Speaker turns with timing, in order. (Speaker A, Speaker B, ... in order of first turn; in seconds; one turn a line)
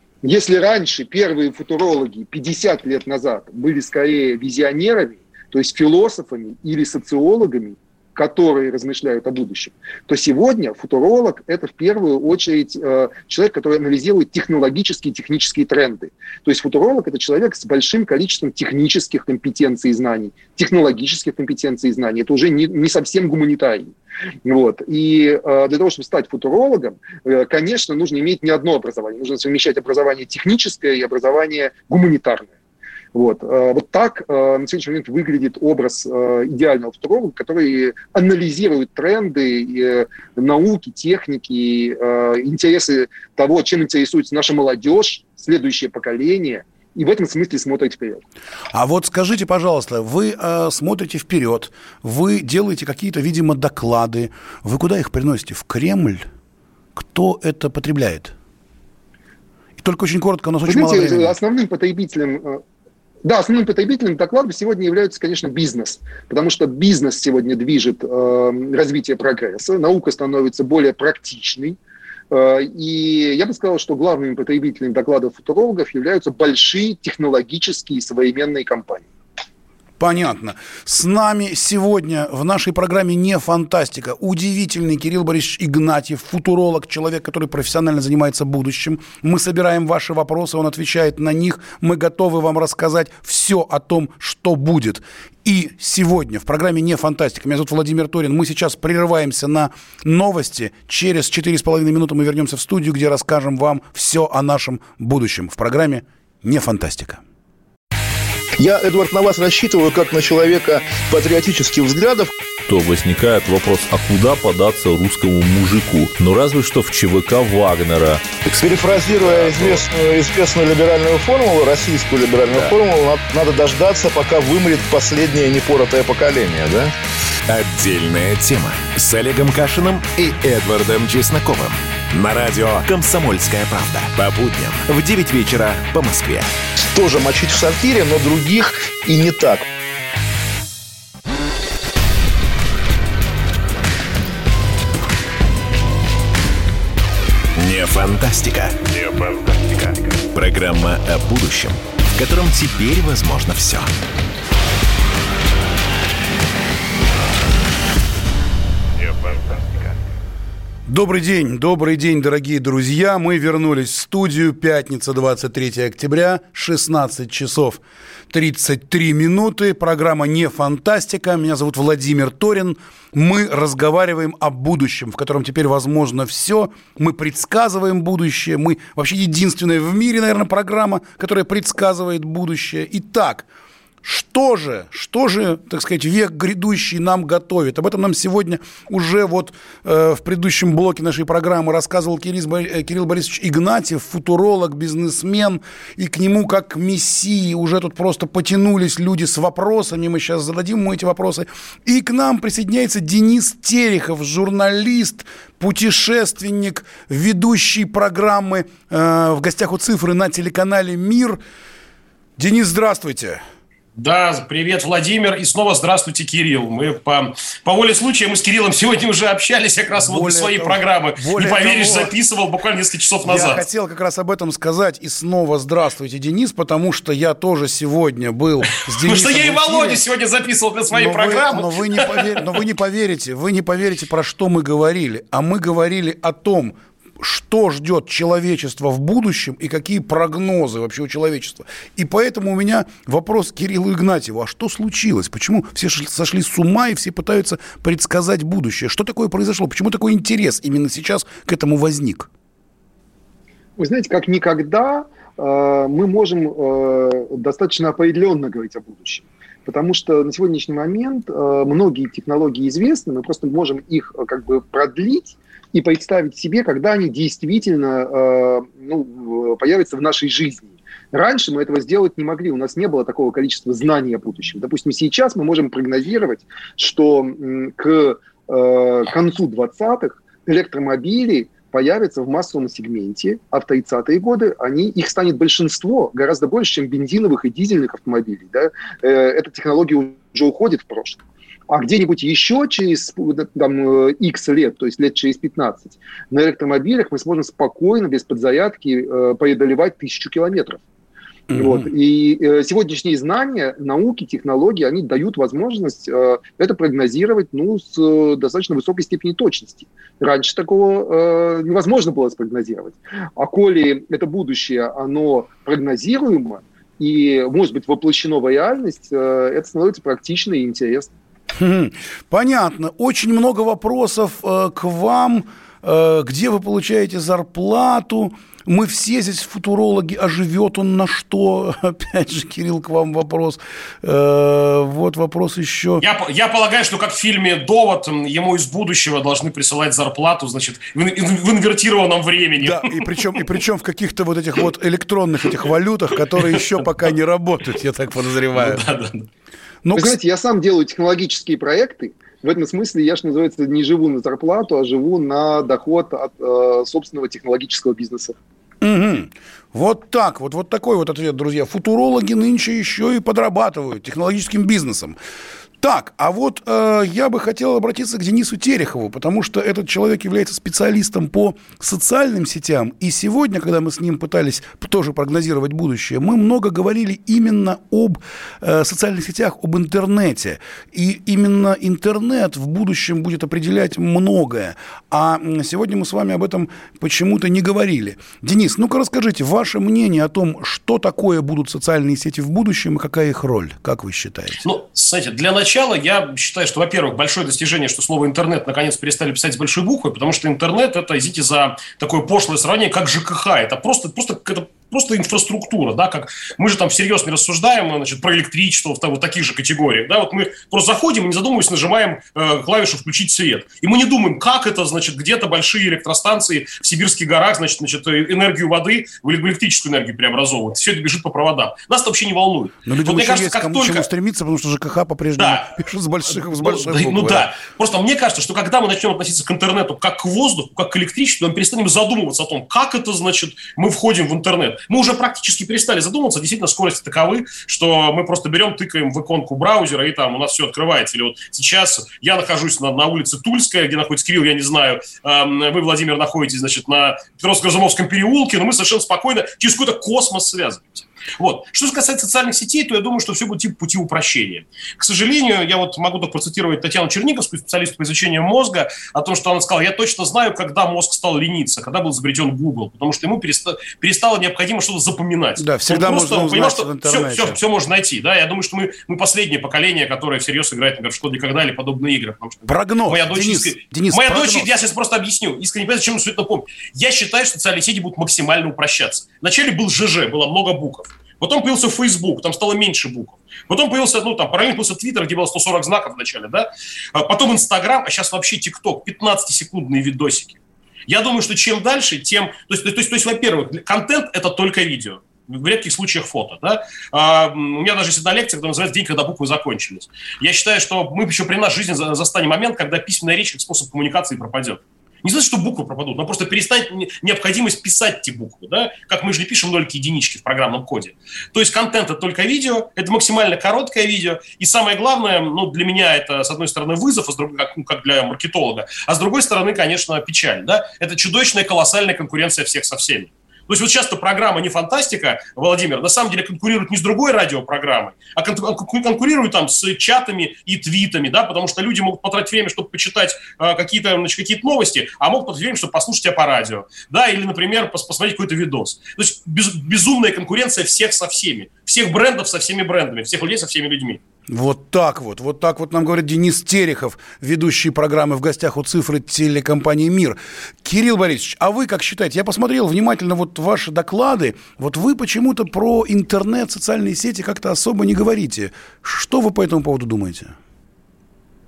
Speaker A: 0.2-23.9
Speaker A: 24.4-32.5
Speaker A: 33.1-48.2
Speaker B: 48.7-56.2
Speaker B: 56.9-58.3
Speaker B: 59.8-61.3
Speaker A: 60.6-62.6
Speaker A: 63.2-71.8
Speaker A: 72.3-79.0
Speaker B: 80.0-107.2
Speaker C: 108.6-112.3
Speaker D: 112.7-118.2
Speaker C: 118.4-126.9
Speaker E: 127.5-136.5
Speaker C: 136.9-139.6
Speaker E: 147.5-148.8
Speaker E: 150.3-153.9
Speaker B: 160.9-183.4
Speaker B: 184.0-211.4
Speaker B: 212.4-213.4
Speaker F: 214.0-223.6
Speaker B: 219.9-222.1
Speaker B: 223.2-230.0
Speaker F: 228.7-232.6
Speaker B: 230.9-252.3
Speaker A: 253.8-300.8
Speaker B: 301.5-301.9
Speaker A: 301.5-321.1
Speaker B: 321.5-336.0
Speaker F: 336.0-343.3
Speaker B: 342.6-348.8
Speaker F: 346.2-346.9
Speaker F: 348.5-349.3
Speaker B: 349.8-350.1
Speaker A: 349.9-358.3
Speaker B: 358.8-365.2
Speaker B: 365.8-394.6
Speaker F: 394.6-424.1
Speaker B: 422.8-427.5
Speaker F: 425.4-425.7
Speaker F: 426.3-544.2
Speaker B: 465.6-467.6
Speaker B: 472.7-474.7
Speaker B: 544.5-560.5